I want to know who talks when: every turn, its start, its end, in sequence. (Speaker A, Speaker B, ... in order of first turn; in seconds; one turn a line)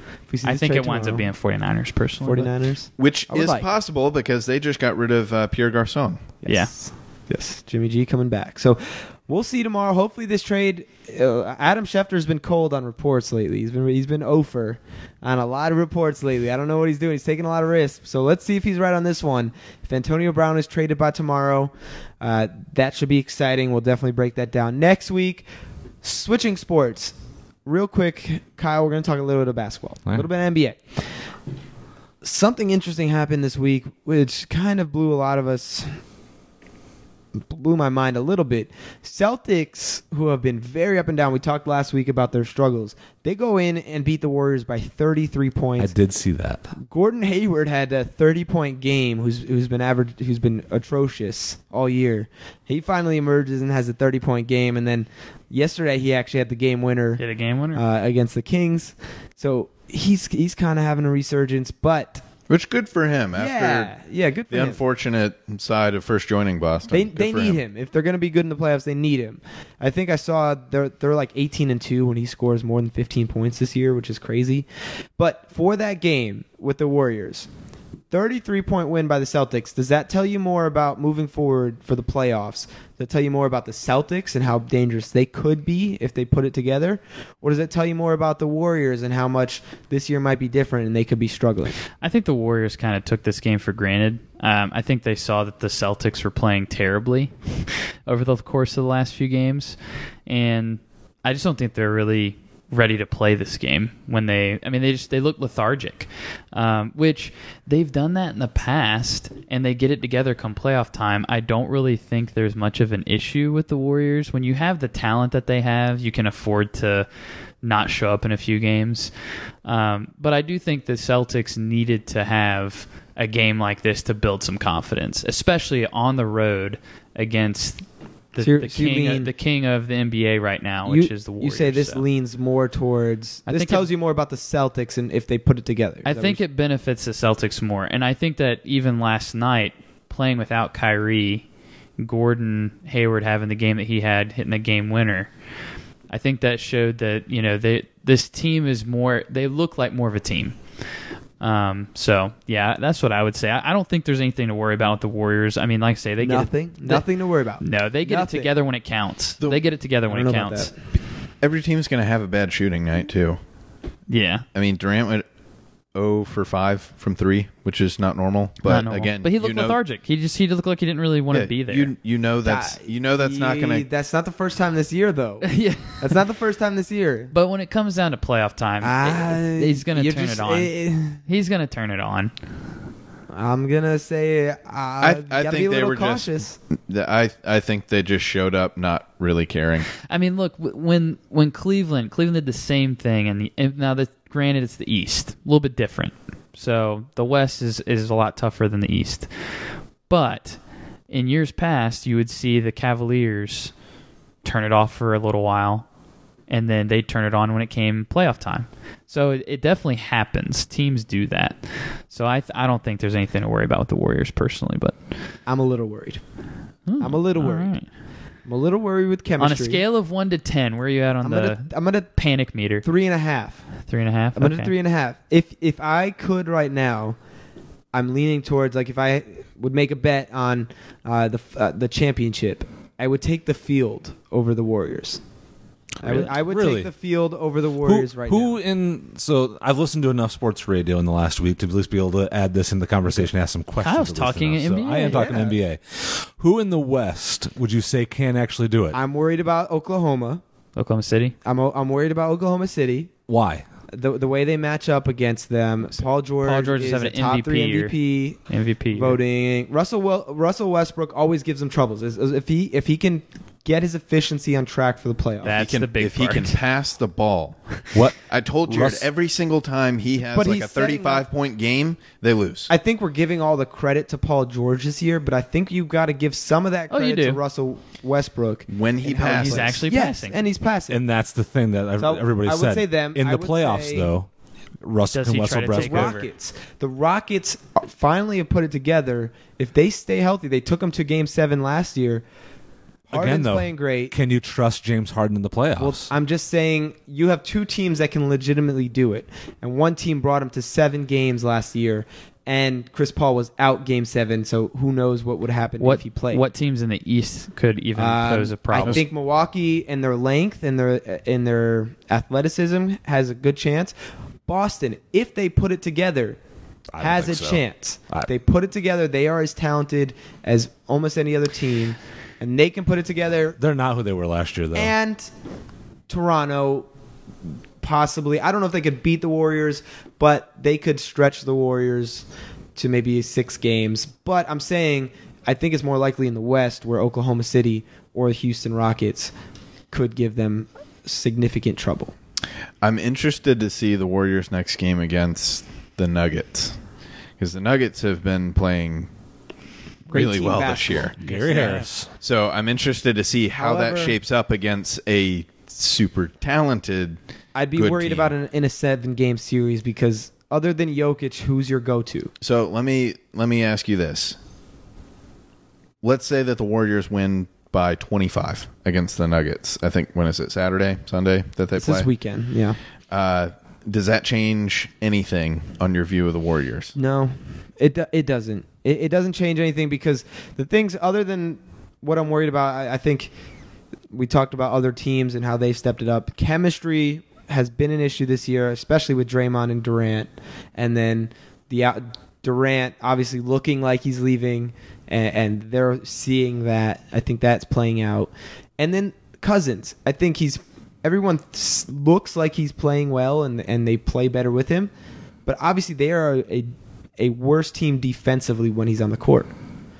Speaker A: 0.3-1.3
Speaker B: 0.4-2.5
Speaker A: 2.2-3.7
Speaker C: 3.0-6.3
Speaker A: 6.4-25.5
Speaker B: 6.5-6.8
Speaker A: 26.0-31.1
Speaker A: 32.2-36.0
Speaker A: 37.5-45.9
Speaker D: 45.8-46.6
Speaker A: 46.8-57.2
Speaker B: 57.2-57.8
Speaker A: 57.7-62.2
Speaker C: 62.5-63.9
Speaker A: 63.4-64.8
Speaker C: 64.5-67.6
Speaker A: 66.9-74.7
Speaker A: 75.2-77.5
Speaker A: 78.1-91.8
Speaker B: 92.0-117.1
Speaker B: 117.6-132.0
Speaker A: 128.4-129.3
Speaker A: 130.9-136.4
Speaker B: 133.5-133.9
Speaker B: 136.1-141.5
Speaker B: 142.0-145.4
Speaker B: 146.1-150.9
Speaker B: 151.4-160.7
Speaker A: 156.2-158.5
Speaker A: 160.1-160.8
Speaker C: 161.4-163.4
Speaker B: 164.1-164.5
Speaker C: 164.5-165.3
Speaker C: 165.9-169.8
Speaker B: 168.7-171.9
Speaker C: 171.3-173.9
Speaker A: 172.4-177.3
Speaker B: 175.4-176.2
Speaker B: 177.3-182.3
Speaker A: 178.8-181.2
Speaker A: 183.3-186.6
Speaker C: 185.0-189.9
Speaker B: 190.1-203.8
Speaker B: 204.4-205.9
Speaker B: 206.5-215.1
Speaker A: 215.5-216.2
Speaker B: 216.9-217.9
Speaker A: 217.0-217.8
Speaker A: 218.4-219.8
Speaker B: 219.4-222.9
Speaker A: 221.2-222.1
Speaker A: 222.8-223.7
Speaker B: 223.9-224.7
Speaker A: 224.3-227.2
Speaker A: 227.9-235.2
Speaker A: 236.0-238.6
Speaker D: 236.0-236.9
Speaker D: 237.8-249.0
Speaker B: 243.8-245.4
Speaker A: 245.1-245.6
Speaker A: 248.9-250.4
Speaker B: 250.8-251.4
Speaker A: 251.4-253.1
Speaker D: 253.3-253.7
Speaker A: 253.9-258.4
Speaker B: 256.4-259.2
Speaker A: 258.9-265.7
Speaker B: 265.4-266.6
Speaker C: 265.5-272.7
Speaker D: 267.9-269.1
Speaker A: 270.3-271.2
Speaker A: 272.7-281.0
Speaker B: 276.9-277.4
Speaker C: 278.7-279.8
Speaker B: 279.2-280.4
Speaker D: 280.9-284.3
Speaker A: 282.0-284.1
Speaker D: 284.8-286.2
Speaker B: 285.1-286.3
Speaker A: 285.7-292.2
Speaker A: 293.1-294.1
Speaker D: 293.1-296.1
Speaker A: 295.8-306.4
Speaker B: 305.8-309.0
Speaker A: 307.9-313.9
Speaker A: 314.5-316.4
Speaker D: 316.9-318.3
Speaker A: 317.0-323.6
Speaker D: 323.6-324.9
Speaker A: 324.7-325.3
Speaker A: 326.1-326.9
Speaker A: 327.8-339.3
Speaker A: 339.9-342.1
Speaker C: 342.8-346.8
Speaker C: 347.4-349.1
Speaker A: 350.1-351.9
Speaker C: 350.1-357.2
Speaker D: 351.2-352.1
Speaker B: 351.3-351.9
Speaker A: 353.6-354.2
Speaker A: 357.6-362.3
Speaker C: 357.8-358.3
Speaker C: 362.4-364.4
Speaker C: 366.0-372.1
Speaker A: 371.8-372.8
Speaker C: 373.1-376.9
Speaker A: 376.9-383.3
Speaker A: 384.1-404.9
Speaker A: 405.5-409.5